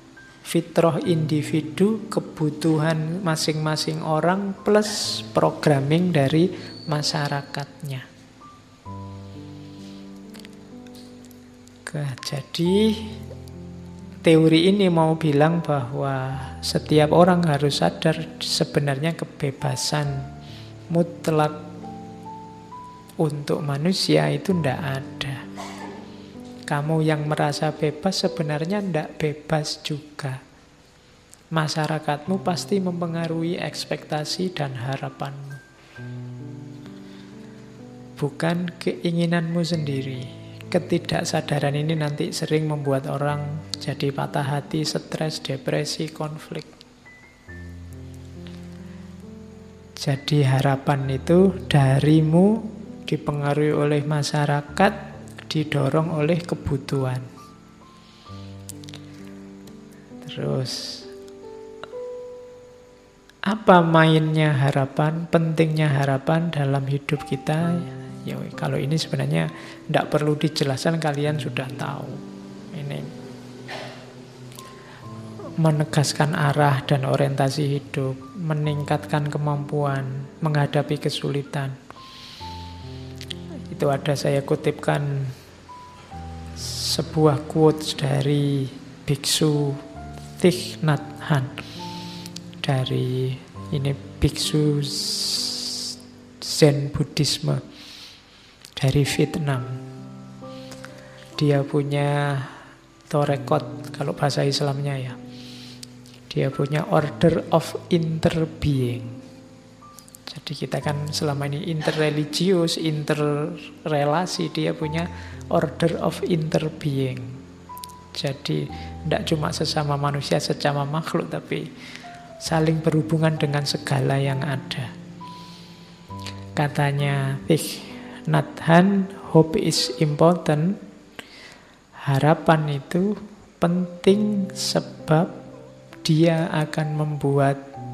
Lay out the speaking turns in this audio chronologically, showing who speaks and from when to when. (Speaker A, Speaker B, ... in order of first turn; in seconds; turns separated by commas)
Speaker A: 0.4-8.1, Speaker A: 11.9-13.2, Speaker A: 14.2-20.3, Speaker A: 20.9-21.6, Speaker A: 23.2-25.4, Speaker A: 26.7-30.4, Speaker A: 31.5-35.6, Speaker A: 38.2-46.7, Speaker A: 50.0-57.3, Speaker A: 60.2-61.1, Speaker A: 63.5-73.1, Speaker A: 75.6-81.8, Speaker A: 83.7-85.4, Speaker A: 86.6-89.8, Speaker A: 90.4-91.5, Speaker A: 92.6-97.6, Speaker A: 98.8-99.8, Speaker A: 101.4-102.6, Speaker A: 103.1-105.2, Speaker A: 106.3-109.2, Speaker A: 110.3-117.4, Speaker A: 118.2-121.7, Speaker A: 122.4-124.9, Speaker A: 126.6-130.8, Speaker A: 132.0-135.3, Speaker A: 136.0-137.6